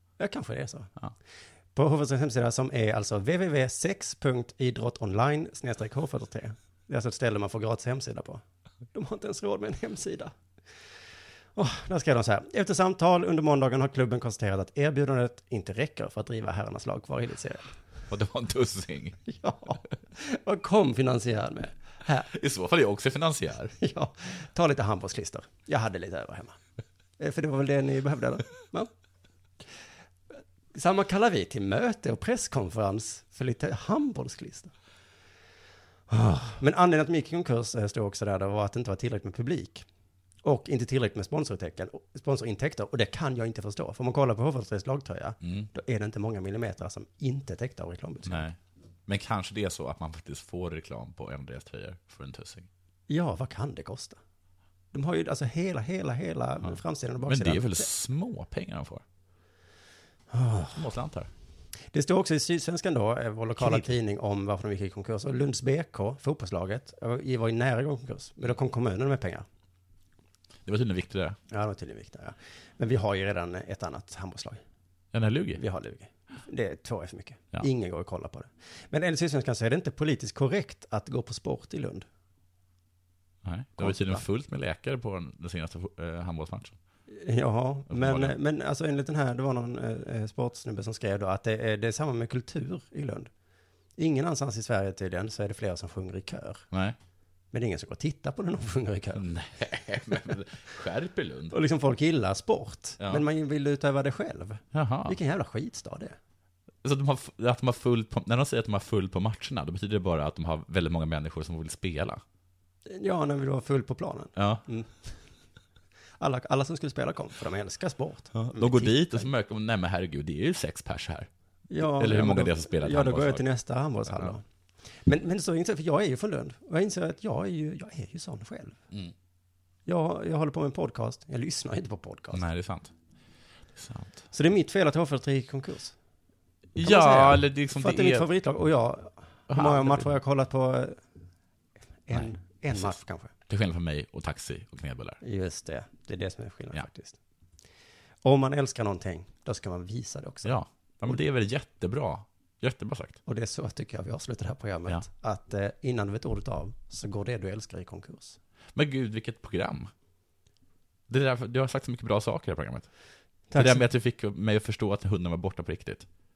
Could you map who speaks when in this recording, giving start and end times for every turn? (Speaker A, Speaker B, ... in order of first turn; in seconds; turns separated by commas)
Speaker A: 0.2-0.9, Speaker A: 1.7-8.4, Speaker A: 8.9-10.3, Speaker A: 11.6-17.7, Speaker B: 18.1-19.2, Speaker A: 19.2-22.3, Speaker B: 22.3-23.7, Speaker A: 23.8-26.6, Speaker A: 27.2-28.9, Speaker A: 30.7-34.7, Speaker A: 36.1-39.9, Speaker A: 40.4-48.5, Speaker B: 45.4-45.7, Speaker B: 48.3-52.7, Speaker A: 53.1-54.2, Speaker A: 54.9-57.9, Speaker B: 56.7-59.0, Speaker A: 60.3-60.8, Speaker B: 60.7-61.3, Speaker A: 61.9-69.4, Speaker B: 63.6-63.8, Speaker B: 70.7-71.4, Speaker A: 71.5-74.6, Speaker B: 75.1-75.6, Speaker A: 75.6-82.0, Speaker B: 83.4-86.8, Speaker A: 83.8-84.2, Speaker A: 87.1-93.3, Speaker B: 87.9-88.3, Speaker A: 94.0-96.6, Speaker B: 96.7-97.0, Speaker A: 97.5-99.2, Speaker B: 99.2-101.5, Speaker A: 101.5-106.2, Speaker B: 104.7-105.2, Speaker B: 106.8-112.2, Speaker A: 112.8-115.1, Speaker B: 114.3-114.6, Speaker A: 116.2-119.2, Speaker B: 118.3-123.4, Speaker A: 121.7-124.4, Speaker B: 124.1-124.3, Speaker A: 125.0-128.8, Speaker A: 129.8-132.4, Speaker B: 132.3-132.9, Speaker B: 133.8-134.2, Speaker A: 134.3-135.9, Speaker B: 136.7-138.3, Speaker A: 136.8-141.0, Speaker B: 139.5-140.1, Speaker A: 142.1-143.3, Speaker B: 142.1-142.9, Speaker B: 143.5-145.2, Speaker A: 145.2-147.2, Speaker A: 148.2-151.2, Speaker B: 150.4-153.2, Speaker A: 153.2-158.4, Speaker B: 158.7-159.9, Speaker B: 161.1-162.9, Speaker A: 163.5-163.8, Speaker B: 163.5-166.1